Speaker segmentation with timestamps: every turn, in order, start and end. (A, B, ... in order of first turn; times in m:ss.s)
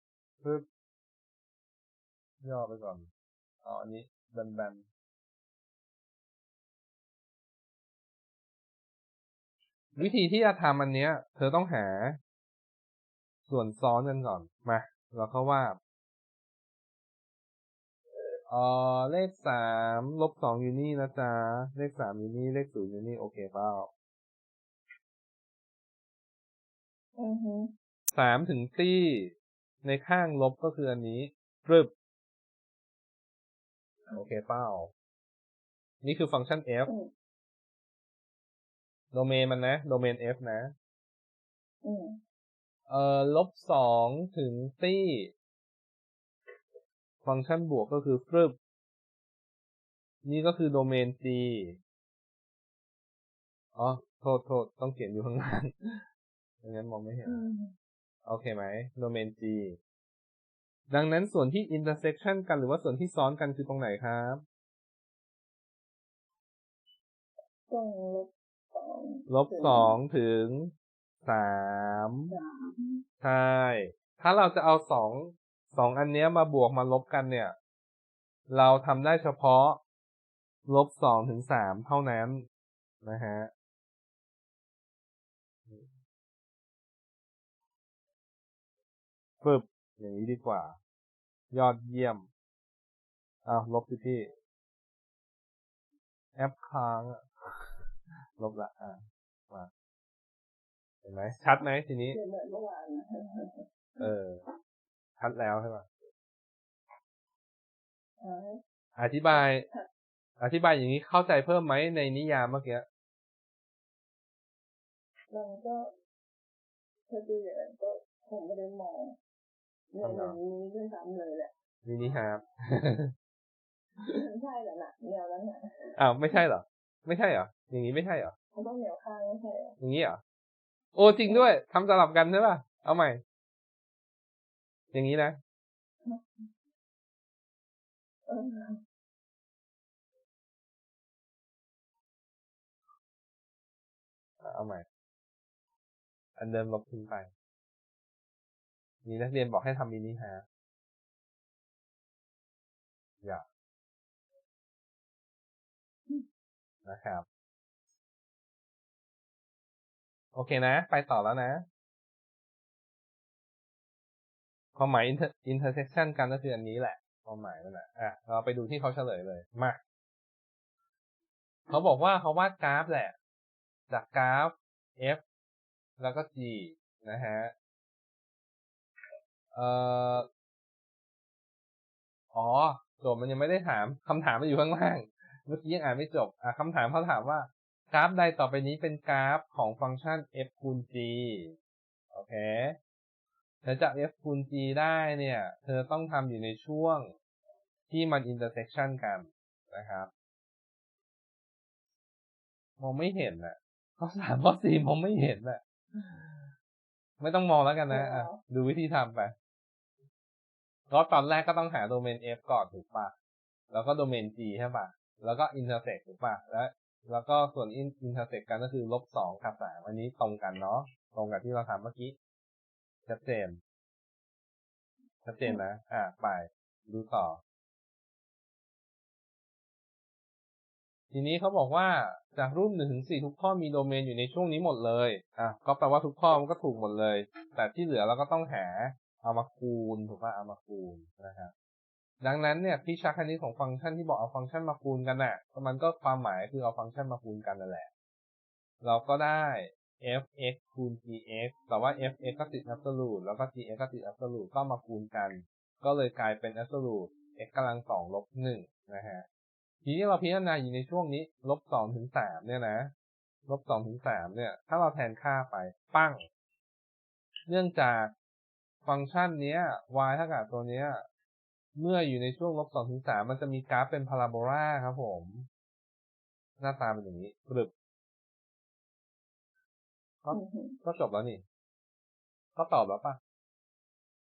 0:02.4-0:03.1 A
0:03.6-0:04.8 A
0:10.0-0:12.2 A
0:13.5-0:15.8 A
0:18.5-0:23.9 A
0:27.2-0:27.7 B
0:28.1-0:31.9 A
0:34.1-0:34.9 A
0:36.0-0:36.9 A
0:39.1-0:40.7 A
0:41.8-0:42.2 B
0:42.9-0:45.3 A
0:47.2-0:48.6 A
0:50.2-0:51.8 A
0:53.8-0:56.0 A
0:56.6-0:57.4 A
0:57.2-0:57.7 B
0:58.2-0:59.8 A
1:00.9-1:04.4 A
1:07.7-1:10.0 B
1:09.3-1:10.7 A
1:11.2-1:12.3 A
1:12.3-1:13.0 B
1:13.2-1:17.6 A
1:18.5-1:19.8 A
1:20.7-1:22.5 A
1:23.0-1:23.5 A
1:29.4-1:30.8 A
1:31.5-1:32.3 A
1:33.4-1:34.3 A
1:36.4-1:37.6 A
1:38.4-1:39.0 A
1:41.0-1:42.2 A
1:42.1-1:44.1 B
1:44.0-1:44.4 A
1:45.2-1:45.9 A
1:48.2-1:48.6 B
1:49.0-1:49.7 A
1:49.3-1:49.9 B
1:50.4-1:52.8 A
1:55.3-1:55.9 B
1:57.1-1:59.2 B
1:59.9-2:01.5 B
2:00.0-2:00.4 A
2:01.8-2:03.1 A
2:04.0-2:05.6 B
2:06.0-2:08.3 A
2:08.5-2:09.8 B
2:09.8-2:10.2 A
2:10.9-2:13.2 A
2:11.2-2:11.5 B
2:14.9-2:15.4 A
2:18.3-2:18.8 B
2:24.4-2:24.9 A
2:26.4-2:27.3 A
2:29.0-2:30.4 A
2:36.8-2:37.3 A
2:40.3-2:41.6 A
2:44.8-2:49.8 A
2:51.7-2:53.2 A
2:53.9-2:55.2 A
2:56.0-2:57.5 A
2:59.5-3:00.3 A
3:02.3-3:11.6 A
3:12.1-3:12.8 A
3:13.6-3:17.1 A
3:17.9-3:20.1 A
3:22.8-3:26.5 A
3:27.2-3:29.3 A
3:27.9-3:28.4 B
3:30.9-3:33.1 A
3:33.7-3:42.2 A
3:43.1-3:43.6 A
3:45.2-3:47.4 A
3:51.1-4:01.5 A
4:02.2-4:07.9 A
4:08.8-4:19.3 A
4:19.8-4:22.9 A
4:23.5-4:26.2 A
4:27.5-4:28.1 A
4:28.8-4:31.0 A
4:31.8-4:35.5 A
4:36.6-4:37.7 A
4:40.2-4:41.4 A
4:40.3-4:40.8 B
4:42.6-4:43.2 A